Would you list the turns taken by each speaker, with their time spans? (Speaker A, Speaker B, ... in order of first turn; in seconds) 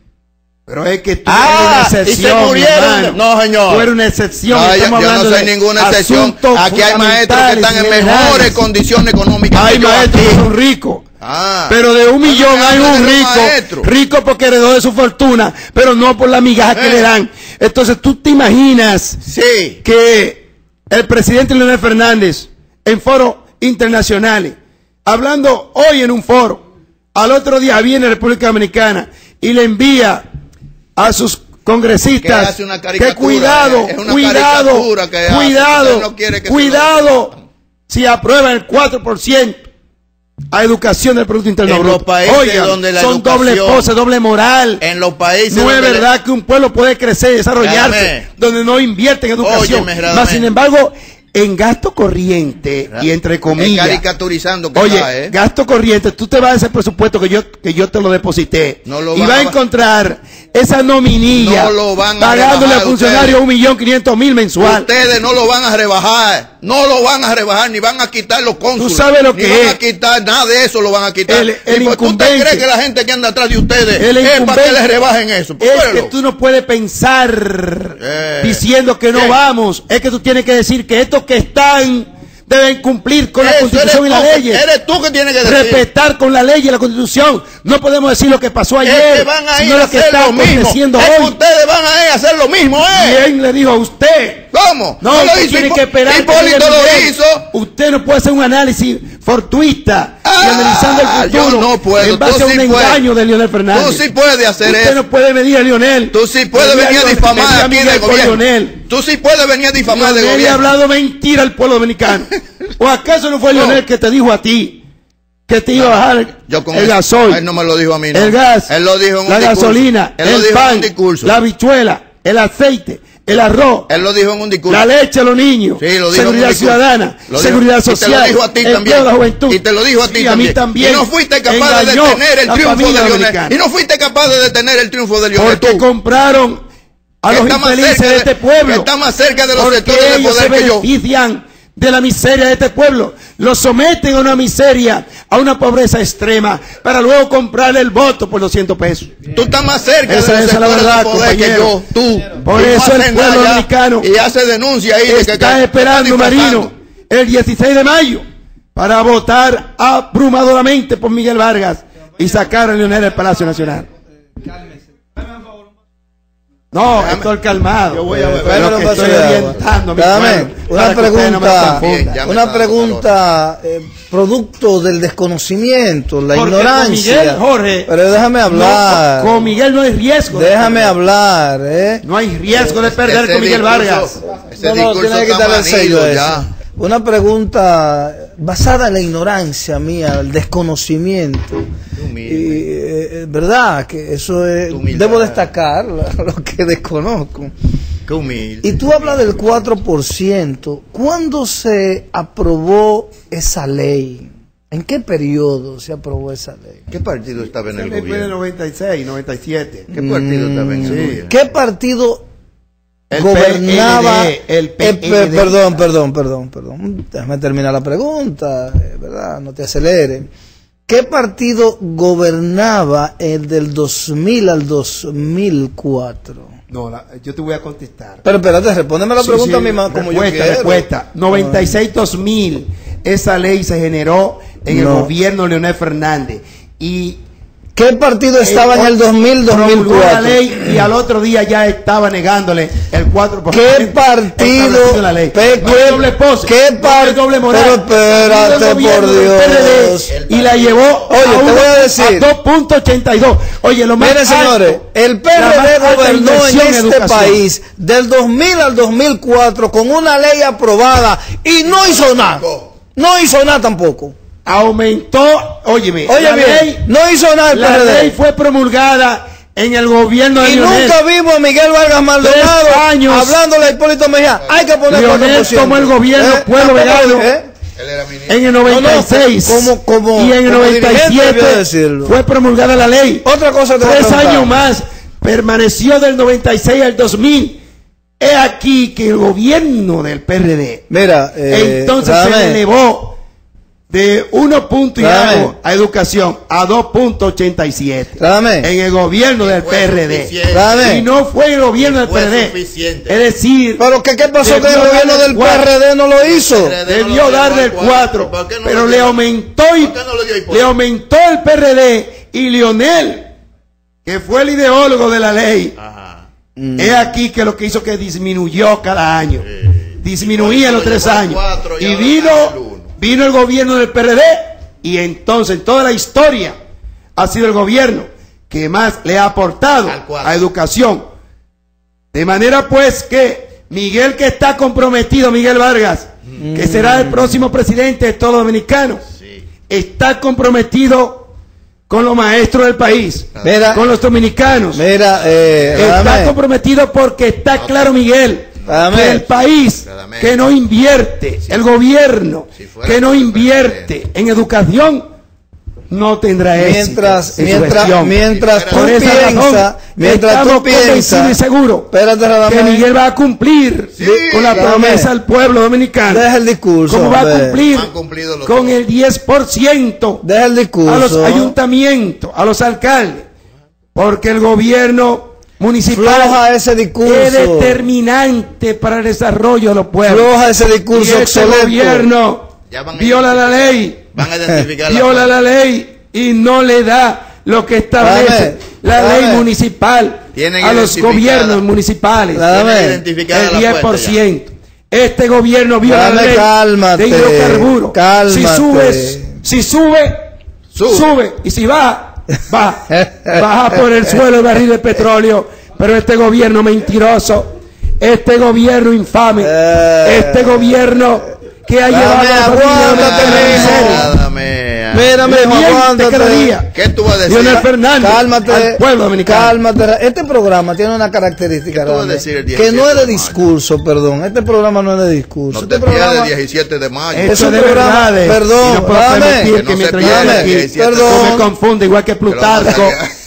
Speaker A: 0.7-8.6, 9.5-11.0, 11.7-19.2, 19.8-24.6, 25.1-26.6, 27.1-30.2, 31.0-37.3, 37.9-39.6, 40.5-44.8, 45.5-54.0, 54.8-64.9, 68.8-69.8, 71.3-72.7, 74.0-75.0, 75.6-84.6, 85.4-91.4, 92.9-94.5, 95.0-104.0, 104.6-108.8, 109.8-114.8, 115.5-117.4, 118.1-118.7, 119.2-123.9, 124.7-133.6, 135.4-136.6, 137.2-138.9, 139.5-149.1, 150.1-151.8, 152.3-154.1, 155.1-158.2, 158.8-163.9, 166.7-172.2, 176.3-177.9, 178.5-181.0, 182.0-184.2, 207.7-209.9, 210.8-211.2, 213.1-215.8, 226.7-228.2, 229.2-237.2, 238.4-257.4, 264.4-266.9, 267.5-271.0, 272.2-273.4, 274.9-277.3, 278.3-283.3, 283.8-287.6, 288.2-290.9, 291.5-293.2, 293.9-302.6, 303.1-303.9, 304.4-305.7, 306.9-310.0, 310.5-313.3, 314.1-315.7, 316.8-319.5, 320.0-326.6, 327.2-331.0, 332.1-339.0, 339.7-341.3, 341.9-344.8, 345.7-355.1, 355.9-361.9, 362.4-366.3, 366.9-367.9, 368.4-370.2, 370.9-373.2, 373.9-376.4, 377.0-380.3, 380.9-384.0, 384.9-392.5, 393.2-400.2, 400.9-414.1, 415.2-416.7, 417.2-419.6, 427.1-433.0
Speaker B: 1.3-3.9, 4.5-10.4, 11.2-13.9, 16.7-17.1, 19.2-19.8, 32.2-37.4, 41.6-43.9, 44.8-46.1, 47.6-48.3, 49.4-50.5, 52.9-55.3, 58.9-59.6, 61.3-63.4, 64.6-76.1, 78.0-78.6, 79.1-79.4, 83.4-85.8, 88.8-93.2, 94.5-97.5, 100.2-103.0, 103.7-105.0, 106.1-110.6, 113.5-113.8, 115.8-121.4, 123.9-124.8, 125.8-135.8, 137.3-140.9, 149.3-156.7, 166.9-167.3, 167.9-169.6, 171.6-173.1, 182.9-186.5, 192.0-192.7, 194.7-195.4, 198.1-199.7, 206.9-208.3, 209.9-211.4, 245.6-246.0, 248.2-248.8, 250.1-251.2, 261.7-262.7, 274.4-275.7, 277.8-278.4, 299.4-300.9, 301.8-303.2, 306.2-309.2, 309.8-310.7, 315.8-316.3, 319.6-322.9, 329.9-330.5, 343.4-343.7, 345.1-346.0, 347.6-347.9, 349.8-350.4, 352.6-353.9, 357.4-359.4, 364.0-364.8, 367.7-368.8, 382.7-385.4, 390.3-391.6, 392.5-394.2, 400.7-401.1, 412.8-415.2, 416.7-417.6, 421.7-423.4, 425.5-427.4, 429.5-431.3, 432.3-433.1
Speaker C: 168.1-179.5, 180.3-182.8, 184.4-191.7, 192.2-197.5, 198.6-206.9, 209.9-212.3, 213.1-220.3, 220.9-226.5, 228.2-231.8, 234.7-235.1, 237.8-240.9, 243.5-250.1, 251.1-252.3, 254.0-264.1, 266.1-268.2, 270.4-277.5, 278.7-282.2, 283.2-284.6, 290.9-292.6, 295.0-295.5, 298.2-298.7, 300.5-301.1, 303.8-306.8, 316.6-317.1, 336.4-337.4, 343.4-343.9, 344.7-346.4, 348.7-349.2, 356.6-361.4, 361.9-362.9, 364.5-365.1, 366.1-367.6, 370.2-371.6, 375.9-377.9, 380.0-382.1, 388.0-389.5, 392.3-393.0, 395.8-399.4, 403.0-403.2, 409.4-410.9, 411.9-414.1, 414.9-416.6, 417.6-426.3, 427.3-431.5